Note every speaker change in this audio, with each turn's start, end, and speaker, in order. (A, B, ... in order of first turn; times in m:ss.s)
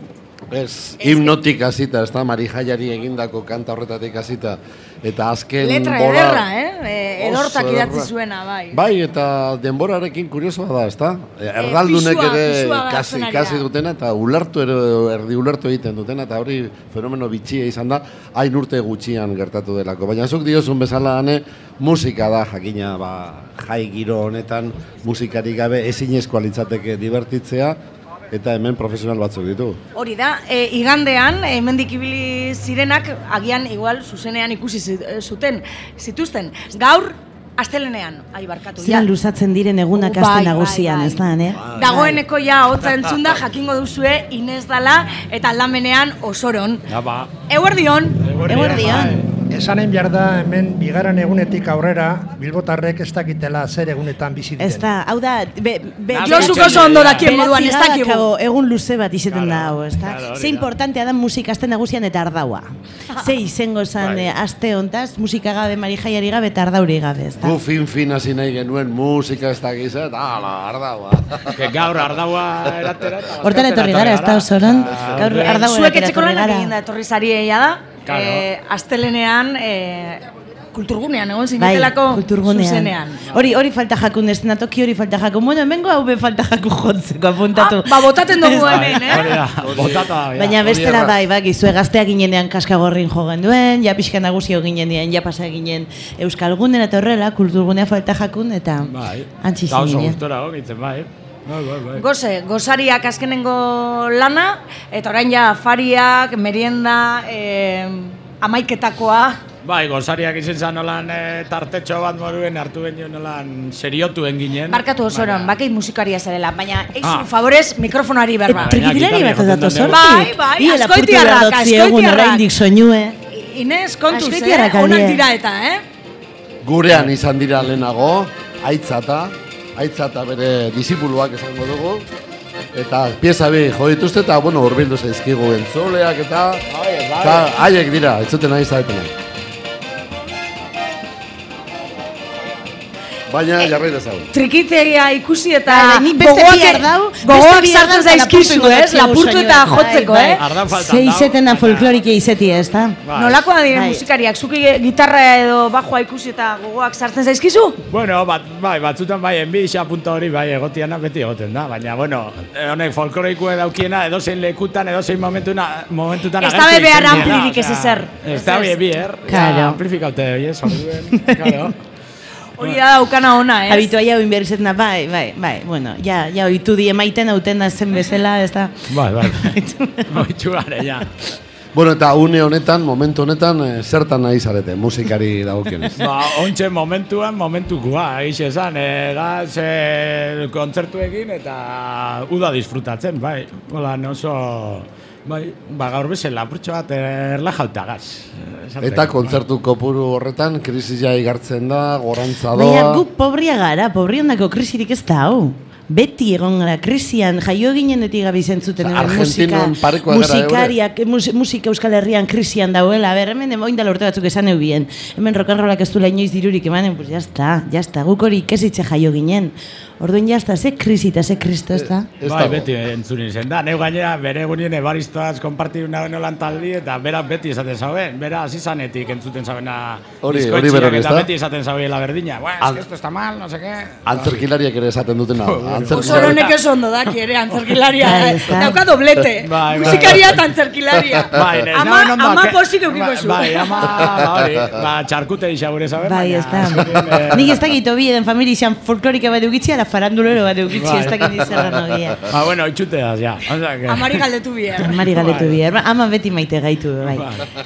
0:00.5-0:06.4 A
0:01.0-0:01.4 B
0:05.6-0:08.8 B
0:07.2-0:08.1 A
0:08.7-0:27.8 A
0:11.6-0:13.7 B
0:28.3-0:29.8 A
0:30.0-0:39.1 B
0:38.8-0:42.2 C
0:40.0-0:41.2 B
0:41.8-0:46.9 B
0:46.9-0:47.3 D
0:47.5-0:48.2 B
0:48.2-0:49.3 D
0:48.5-0:49.2 C
0:49.5-0:54.8 E
0:54.6-1:07.6 C
0:56.1-0:57.3 D
0:56.2-0:58.3 B
0:59.3-1:00.7 D
1:04.0-1:04.3 D
1:07.4-1:11.6 A
1:11.5-1:15.6 D
1:13.4-1:16.7 C
1:15.2-1:23.3 B
1:18.1-1:18.4 D
1:21.6-1:29.2 C
1:27.5-1:29.3 B
1:28.6-1:30.8 D
1:29.5-1:31.2 A
1:30.4-1:40.2 C
1:38.8-1:42.0 D
1:41.9-1:49.4 B
1:49.6-1:55.5 D
1:54.7-1:58.8 B
1:57.0-1:57.3 D
1:58.5-2:03.2 C
1:58.5-2:00.2 D
1:59.9-2:02.4 B
2:03.3-2:05.8 B
2:04.1-2:05.2 C
2:06.6-2:12.1 A
2:12.7-2:16.6 A
2:16.7-2:17.5 D
2:17.2-2:19.1 A
2:23.3-2:24.3 A
2:24.3-2:30.4 B
2:25.7-2:33.0 C
2:30.4-2:32.0 D
2:33.0-2:33.4 D
2:33.1-2:37.8 B
2:33.7-2:34.0 C
2:37.9-2:51.8 D
2:46.4-2:48.8 B
2:49.3-2:49.8 C
2:50.7-2:51.7 C
2:52.6-2:53.9 B
2:53.7-3:00.2 C
2:58.9-3:01.1 D
3:01.7-3:06.0 A
3:06.0-3:19.4 D
3:18.8-3:23.0 A
3:22.5-3:42.1 C
3:28.8-3:30.7 A
3:42.2-3:42.7 A
3:42.2-3:54.4 D
3:50.2-3:51.3 A
3:54.1-3:56.4 A
3:55.4-3:56.6 D
3:55.9-4:04.2 B
3:57.5-3:57.8 D
3:58.0-3:58.8 C
3:59.4-4:00.4 D
4:01.3-4:07.6 D
4:06.0-4:12.3 C
4:10.7-4:11.3 D
4:12.3-4:14.2 D
4:13.9-4:15.0 B
4:14.8-4:17.3 C
4:14.8-4:15.6 D
4:17.0-4:17.4 D